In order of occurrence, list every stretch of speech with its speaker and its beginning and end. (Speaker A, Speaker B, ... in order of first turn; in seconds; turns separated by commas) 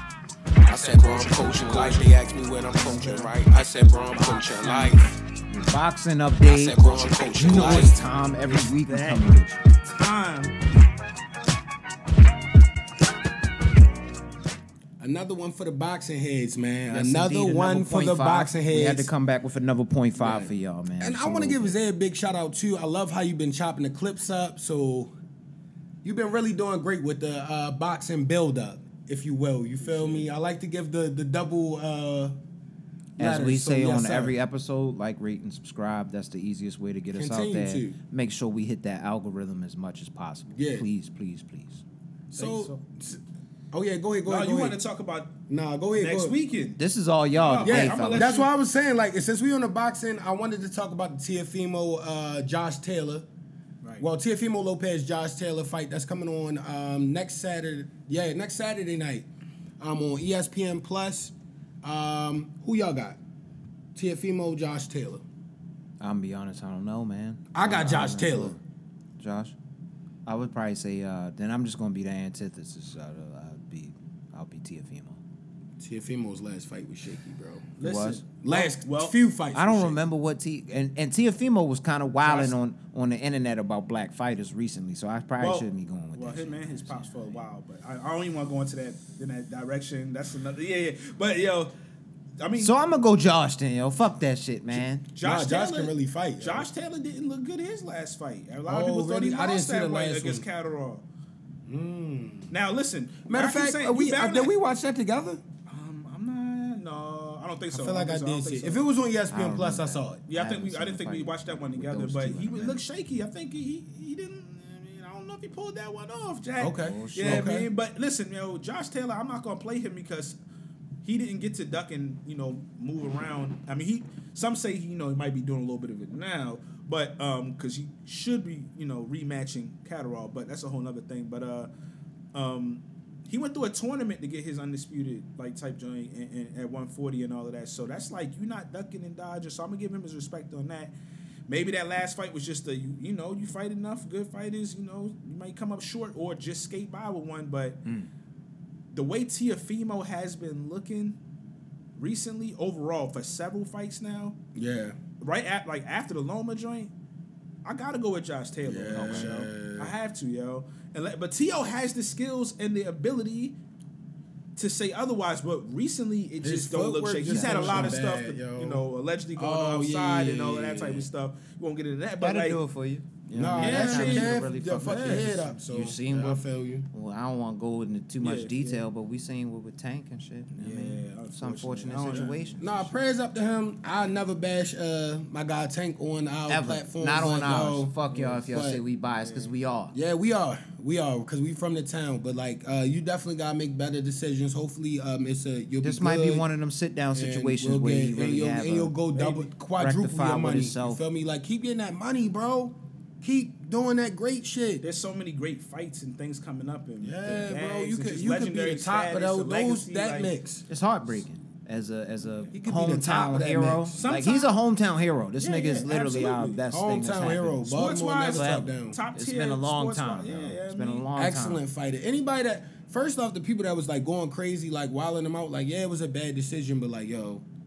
Speaker A: 0.7-5.0, Speaker B: 1.0-2.0, Speaker C: 1.4-2.0, Speaker C: 2.7-3.3, Speaker B: 4.1-9.6, Speaker A: 6.4-8.0, Speaker C: 7.4-9.3, Speaker C: 9.9-10.6, Speaker D: 15.0-19.1, Speaker B: 16.9-21.8, Speaker D: 20.2-25.1, Speaker D: 26.0-32.4, Speaker C: 29.8-30.3, Speaker D: 33.2-34.4, Speaker B: 33.2-41.8, Speaker D: 37.1-38.0, Speaker D: 40.5-40.9, Speaker D: 42.3-43.2, Speaker C: 42.4-42.8, Speaker D: 43.7-44.8, Speaker C: 44.2-45.4, Speaker D: 45.5-46.4, Speaker C: 45.9-46.8, Speaker B: 46.8-48.4, Speaker C: 47.3-48.5, Speaker D: 47.6-53.2, Speaker D: 54.0-59.2, Speaker D: 59.8-63.2, Speaker D: 63.9-65.2, Speaker B: 66.0-68.6, Speaker D: 67.5-68.5, Speaker B: 69.2-69.5, Speaker B: 70.2-75.2, Speaker D: 75.8-77.7, Speaker C: 77.8-79.2, Speaker B: 77.8-78.2, Speaker D: 78.4-80.0, Speaker B: 79.5-87.4, Speaker C: 82.2-82.6, Speaker C: 85.4-91.7, Speaker C: 92.4-92.7, Speaker B: 92.5-95.0, Speaker C: 95.1-101.0, Speaker D: 95.2-96.7, Speaker D: 98.7-100.4, Speaker D: 101.7-102.5, Speaker C: 102.5-104.5, Speaker D: 103.2-105.4, Speaker C: 105.7-108.8, Speaker D: 107.7-110.2, Speaker B: 109.3-112.8, Speaker C: 110.2-120.4, Speaker D: 116.6-117.7, Speaker B: 116.8-117.5, Speaker C: 121.0-131.7, Speaker C: 132.3-140.9, Speaker C: 141.5-147.8, Speaker C: 148.9-151.2, Speaker C: 152.0-154.4, Speaker D: 154.5-155.0, Speaker C: 155.2-156.9, Speaker C: 157.6-163.6, Speaker D: 158.6-159.9, Speaker B: 158.9-159.3, Speaker C: 164.6-172.6, Speaker D: 166.4-168.8, Speaker B: 167.2-168.0, Speaker D: 169.3-171.1, Speaker B: 172.2-183.0, Speaker D: 173.3-176.9, Speaker C: 173.5-175.4, Speaker C: 178.2-178.8, Speaker C: 180.5-182.5, Speaker D: 182.1-188.8, Speaker B: 186.5-189.9, Speaker C: 188.1-188.6, Speaker C: 189.1-189.6, Speaker D: 189.9-196.5, Speaker B: 195.8-201.0, Speaker D: 197.1-204.8, Speaker C: 204.8-210.3, Speaker D: 207.0-210.7, Speaker B: 210.7-221.6, Speaker D: 212.5-214.3, Speaker C: 214.0-214.5, Speaker C: 215.4-216.6, Speaker D: 216.7-219.0, Speaker C: 217.7-221.1, Speaker D: 221.2-227.4